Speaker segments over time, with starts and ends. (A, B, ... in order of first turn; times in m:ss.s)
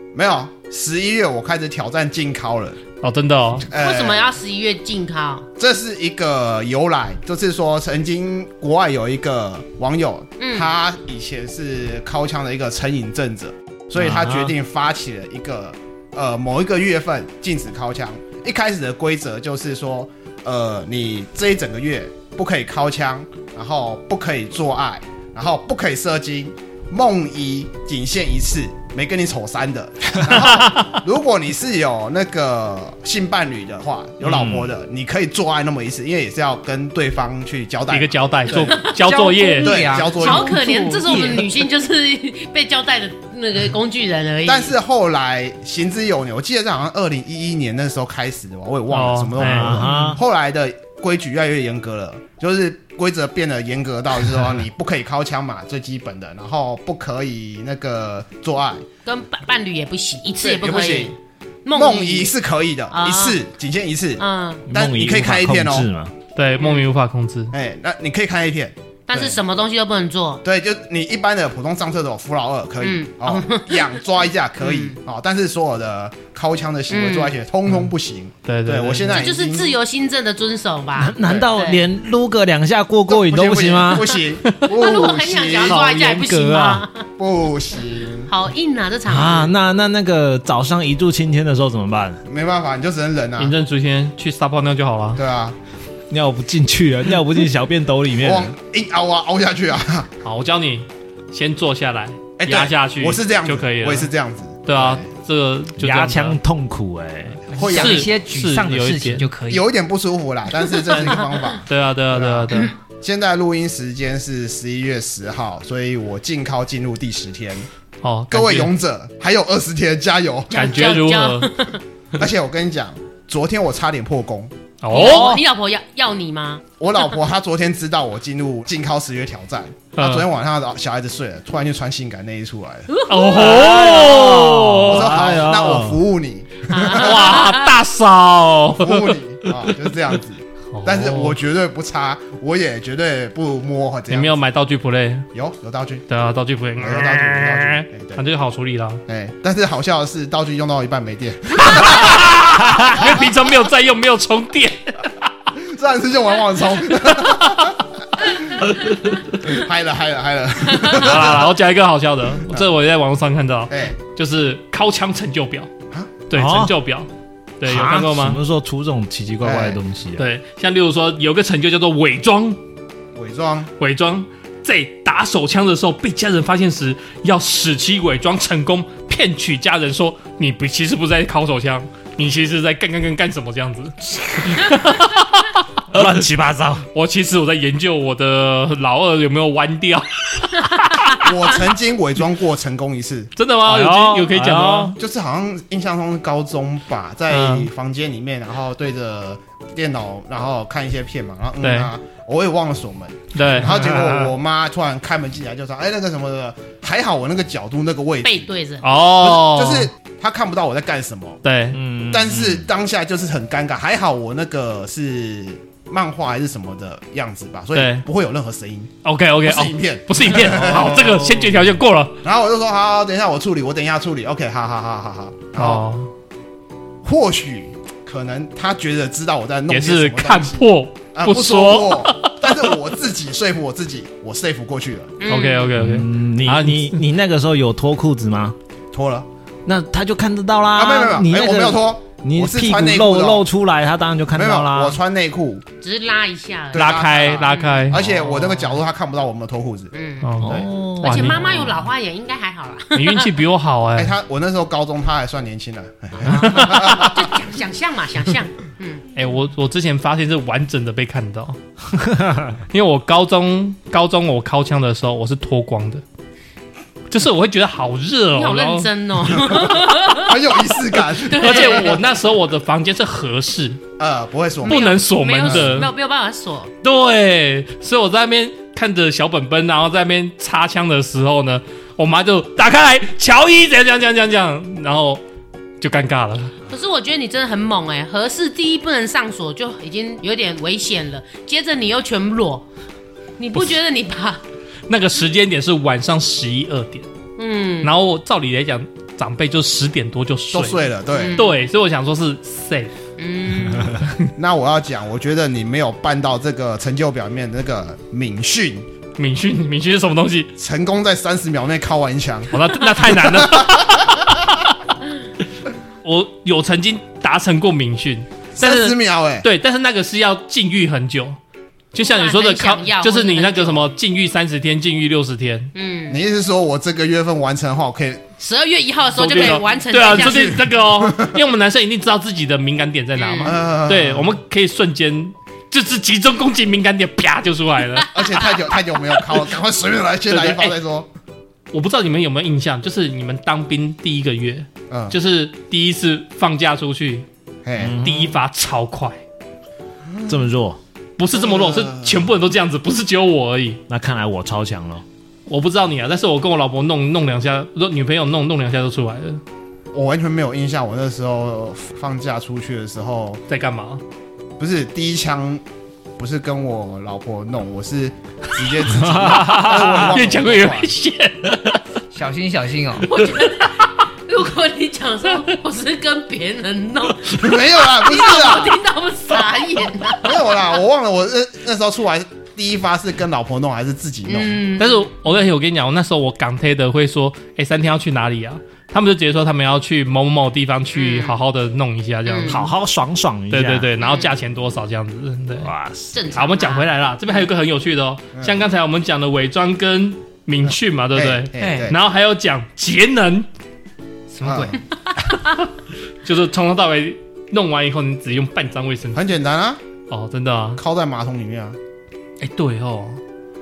0:00.1-0:02.8 A
0:03.0-0:03.7 B
0:03.7-0:04.4 A
0:03.7-0:05.5 C
0:05.6-0:38.9 A
0:10.4-0:10.7 C
0:14.0-0:14.6 D
0:30.2-0:31.0 B
0:34.2-0:34.7 D
0:37.9-0:39.8 B
0:39.0-0:41.5 E
0:39.6-0:40.6 A
0:40.2-0:44.7 C
0:44.5-0:58.9 A
0:48.9-0:49.8 B
0:49.4-0:50.2 D
0:49.8-0:50.2 E
0:59.0-1:02.3 C
1:00.4-1:01.2 A
1:01.7-1:05.9 A
1:02.9-1:03.4 C
1:04.2-1:04.6 C
1:04.7-1:06.2 D
1:06.4-1:07.5 B
1:06.6-1:06.9 C
1:07.5-1:09.4 A
1:09.1-1:10.4 C
1:10.4-1:19.8 A
1:12.8-1:13.9 C
1:14.6-1:15.0 C
1:16.9-1:17.4 C
1:18.4-1:19.2 B
1:19.1-1:21.8 C
1:21.0-1:24.1 D
1:21.2-1:21.5 A
1:23.1-1:25.9 A
1:24.6-1:27.1 C
1:25.7-1:26.9 D
1:27.2-1:28.3 A
1:28.3-1:29.5 C
1:29.1-1:32.2 D
1:32.3-1:33.5 A
1:33.4-1:35.2 B
1:35.2-1:35.6 A
1:36.1-1:38.6 D
1:38.2-1:40.1 A
1:40.2-1:44.1 B
1:42.4-1:45.0 A
1:44.7-1:46.4 B
1:45.8-1:47.4 D
1:47.5-1:48.1 A
1:47.5-1:49.7 E
1:47.6-1:49.3 B
1:49.5-1:57.7 A
1:51.7-1:52.7 B
1:58.0-1:58.7 B
1:58.3-2:01.0 A
2:00.5-2:01.8 C
2:00.5-2:01.5 B
2:02.2-2:04.5 A
2:04.8-2:05.4 B
2:04.9-2:06.6 C
2:06.8-2:17.5 A
2:10.0-2:10.3 B
2:12.9-2:14.2 C
2:13.1-2:15.2 B
2:13.4-2:16.0 D
2:16.7-2:17.7 C
2:16.9-2:19.5 B
2:18.7-2:24.4 A
2:20.7-2:21.4 B
2:24.1-2:25.3 B
2:25.3-2:26.0 A
2:26.1-2:29.0 B
2:26.8-2:28.2 A
2:29.1-2:33.1 A
2:31.6-2:35.1 B
2:35.6-2:41.5 A
2:37.0-2:37.7 B
2:38.6-2:38.9 B
2:40.8-2:45.7 B
2:43.7-2:43.9 A
2:46.3-2:47.1 B
2:46.3-2:46.8 D
2:47.6-2:48.4 B
2:47.6-2:50.3 D
2:49.4-2:49.8 A
2:50.2-2:52.6 B
2:53.2-2:53.7 A
2:53.8-3:06.0 B
3:05.9-3:06.9 D
3:06.9-3:11.2 B
3:11.2-3:13.3 A
3:13.4-3:15.0 B
3:13.6-3:15.0 D
3:15.0-3:31.4 A
3:17.3-3:17.7 B
3:21.6-3:21.9 B
3:23.3-3:24.3 B
3:28.2-3:28.9 C
3:28.8-3:29.9 B
3:31.4-3:31.8 B
3:31.7-3:32.7 D
3:32.1-3:38.9 A
3:37.8-3:38.1 B
3:39.0-3:42.2 B
3:39.4-3:41.2 A
3:40.7-3:41.6 D
3:42.2-3:45.8 A
3:45.6-3:46.1 B
3:47.0-3:55.2 A
3:49.7-3:52.7 B
3:55.2-3:55.8 C
3:55.3-3:57.0 B
3:55.8-3:58.6 D
3:58.9-3:59.3 A
3:59.7-4:05.0 D
4:00.8-4:03.4 A
4:04.3-4:05.7 A
4:05.8-4:08.8 C
4:06.7-4:09.9 A
4:06.8-4:08.0 B
4:09.9-4:13.3 C
4:10.2-4:11.7 B
4:10.4-4:11.7 D
4:13.0-4:14.1 B
4:14.0-4:17.3 A
4:16.3-4:19.0 C
4:16.3-4:17.1 B
4:19.2-4:21.6 B
4:22.1-4:22.5 D
4:22.7-4:26.0 B
4:27.1-4:28.9 B
4:28.3-4:30.4 C
4:29.7-4:32.0 A
4:31.3-4:32.0 C
4:31.3-4:33.8 B
4:34.0-4:35.9 A
4:34.6-4:36.7 C
4:34.7-4:35.9 B
4:36.8-4:45.2 B
4:45.8-4:46.6 B
4:46.7-4:52.7 C
4:53.4-4:54.4 C
4:54.9-4:57.1 B
4:57.4-4:57.9 C
4:57.8-5:02.9 B
5:00.5-5:01.5 A
5:01.1-5:01.5 C
5:03.2-5:04.0 C
5:04.0-5:04.3 B
5:04.4-5:08.9 A
5:09.2-5:10.5 B
5:10.6-5:14.2 A
5:12.5-5:14.6 B
5:16.0-5:21.4 B
5:18.6-5:19.5 A
5:21.9-5:25.7 B
5:22.0-5:23.9 C
5:25.8-5:26.2 C
5:26.1-5:28.3 A
5:28.4-5:30.6 C
5:29.2-5:38.2 B
5:30.2-5:31.4 A
5:33.2-5:33.6 C
5:33.4-5:34.3 A
5:38.1-5:41.1 A
5:40.3-5:40.8 B
5:41.7-5:47.3 B
5:44.9-5:45.2 A
5:47.6-5:48.0 A
5:47.8-5:48.4 D
5:48.0-5:49.2 B
5:50.1-5:50.4 A
5:50.3-5:50.8 D
5:51.2-5:53.8 B
5:51.3-5:52.3 A
5:53.9-5:55.0 D
5:55.5-5:59.4 B
5:59.9-6:03.4 A
6:03.5-6:04.0 B
6:04.6-6:05.6 A
6:06.2-6:10.9 A
6:09.0-6:10.1 D
6:09.4-6:11.8 B
6:12.1-6:13.1 E
6:13.0-6:20.6 C
6:17.3-6:18.8 A
6:20.2-6:24.6 A
6:24.3-6:25.1 C
6:24.8-6:32.7 B
6:30.9-6:31.4 C
6:32.3-6:32.7 C
6:32.5-6:33.9 D
6:33.5-6:35.7 B
6:34.0-6:34.3 C
6:35.6-6:36.2 D
6:36.1-6:36.9 C
6:36.3-6:43.5 B
6:38.4-6:38.6 A
6:40.7-6:42.0 A
6:41.6-6:41.9 E
6:44.3-6:44.8 E
6:44.4-6:44.8 A
6:46.2-6:49.3 B
6:49.1-6:49.8 A
6:50.1-6:50.8 B
6:50.8-6:51.8 A
6:52.4-6:53.2 B